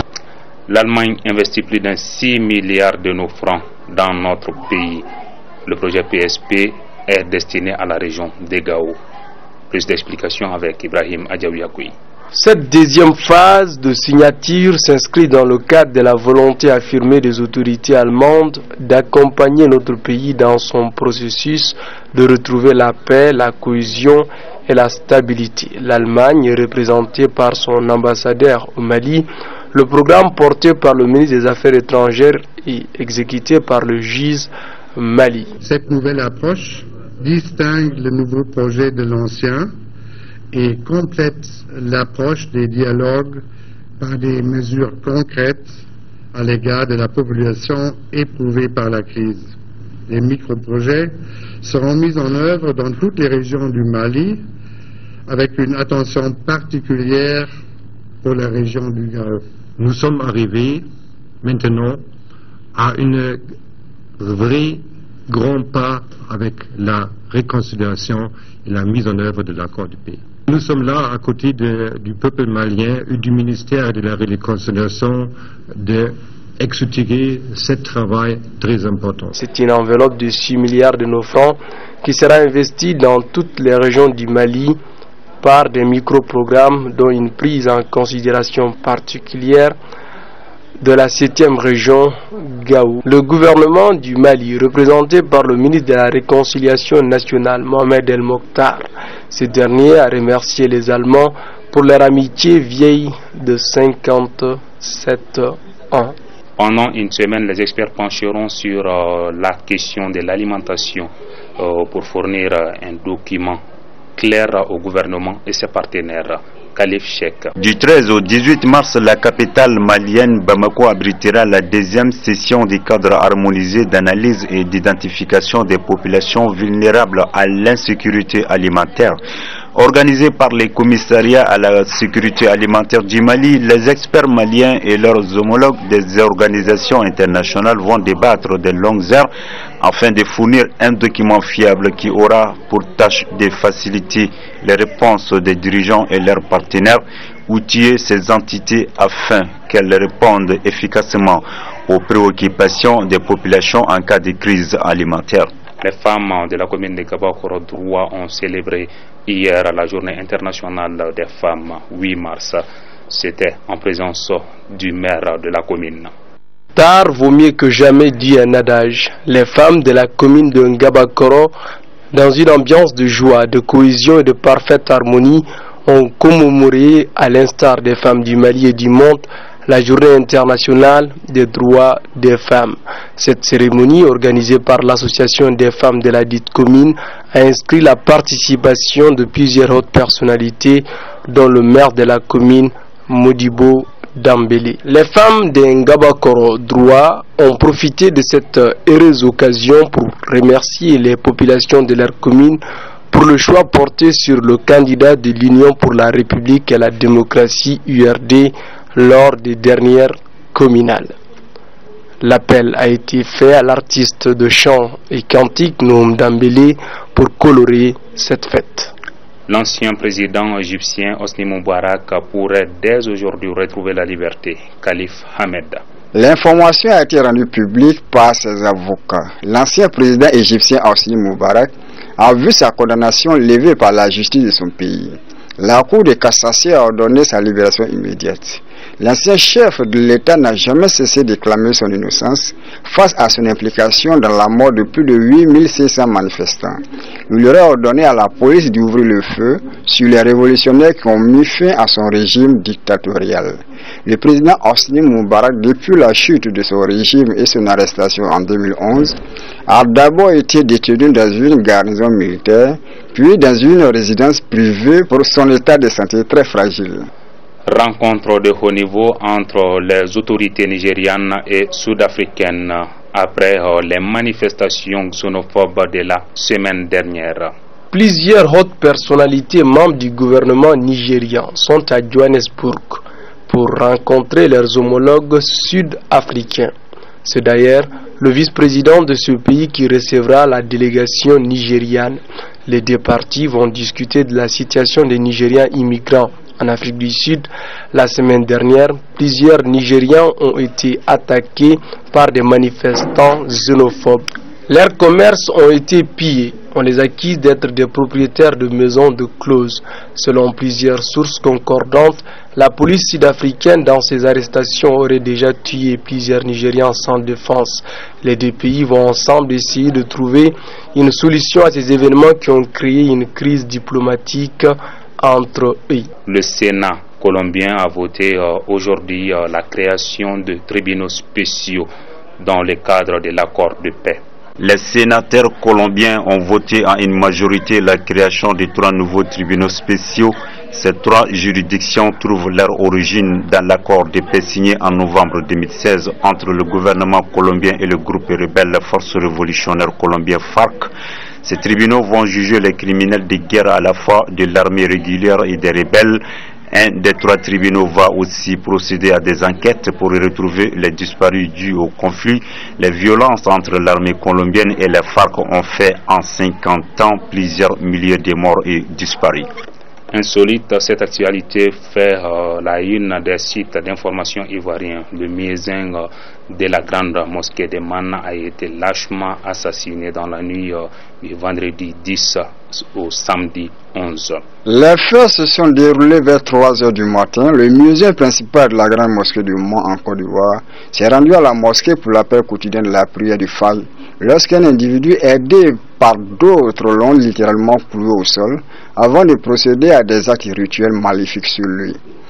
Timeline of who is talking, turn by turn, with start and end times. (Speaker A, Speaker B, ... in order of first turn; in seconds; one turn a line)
Speaker A: 0.7-5.0
Speaker A: 5.7-9.0
Speaker A: 9.7-11.9
Speaker B: 12.3-35.5
Speaker C: 35.6-39.7
Speaker C: 40.5-43.4
Speaker C: 44.0-45.7
Speaker C: 46.3-49.5
Speaker C: 50.1-54.4
Speaker C: 55.3-57.5
Speaker C: 58.2-59.4
Speaker D: 59.8-60.9
Speaker D: 61.4-62.0
Speaker D: 62.7-63.4
Speaker D: 64.2-79.4
Speaker B: 79.4-84.8
Speaker B: 85.4-89.8
Speaker B: 90.8-106.2
Speaker A: 106.6-113.6
Speaker A: 114.2-117.5
Speaker E: 117.6-129.2
Speaker E: 129.8-139.3
Speaker E: 139.8-155.5
Speaker A: 155.8-166.1
Speaker B: 166.8-171.5
Speaker B: 172.1-211.2
Speaker B: 212.2-218.9
Speaker A: 219.5-225.8
Speaker F: 226.1-267.1
Speaker A: 267.7-277.5
Speaker B: 277.9-286.7
Speaker B: 287.2-326.1
Speaker A: 326.3-331.9
Speaker A: 332.4-334.2
Speaker E: 334.6-350.9
Speaker E: 351.4-369.5
Speaker A: 370.1-384.4
Speaker F: 384.7-402.0